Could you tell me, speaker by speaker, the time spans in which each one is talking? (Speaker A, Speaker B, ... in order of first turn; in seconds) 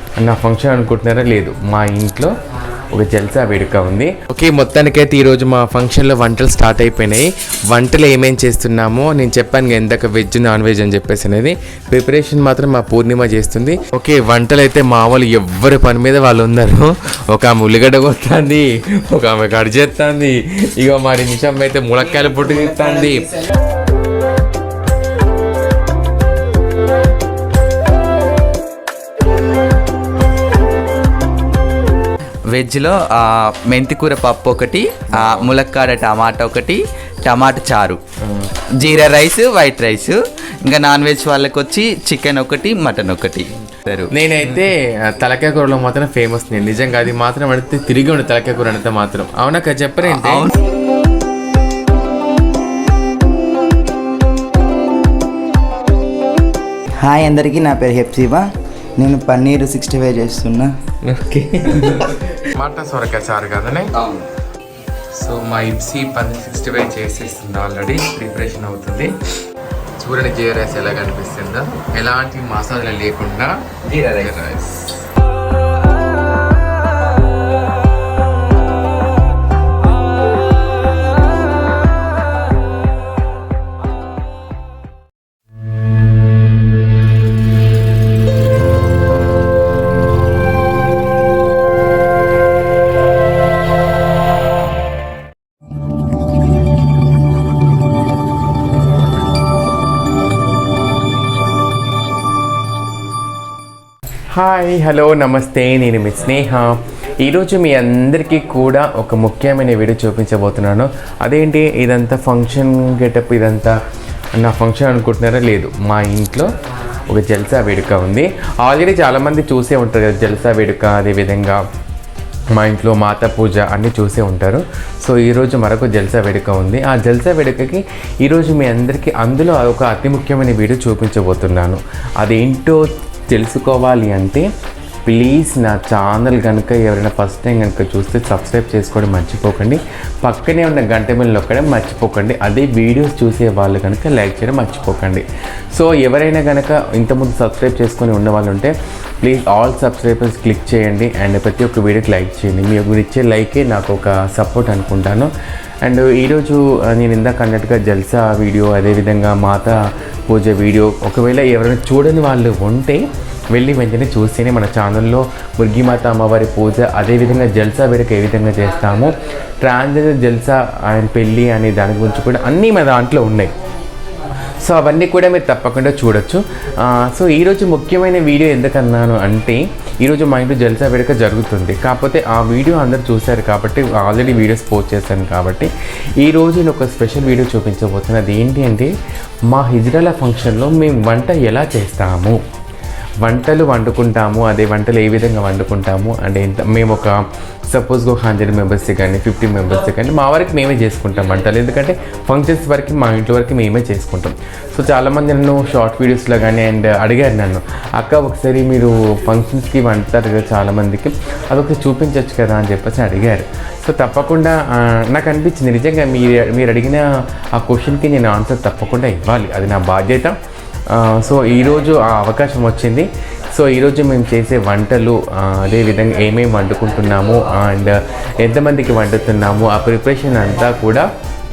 Speaker A: 0.2-2.3, 2.9-23.3, 35.1-35.5, 38.2-38.5, 44.1-50.5, 61.1-63.9, 65.1-69.1, 70.0-73.5, 74.2-74.9, 104.3-113.8, 114.4-116.5, 117.1-121.6, 122.6-134.4, 135.1-148.7, 149.2-155.3, 155.8-159.8, 160.3-173.5, 174.6-185.7, 186.2-188.9, 189.5-192.4, 193.2-197.2, 197.7-220.3, 220.9-231.1
Speaker B: 32.5-38.0, 38.8-44.6, 50.0-50.5, 64.0-64.3, 73.9-74.3
Speaker C: 57.0-58.5, 59.0-60.7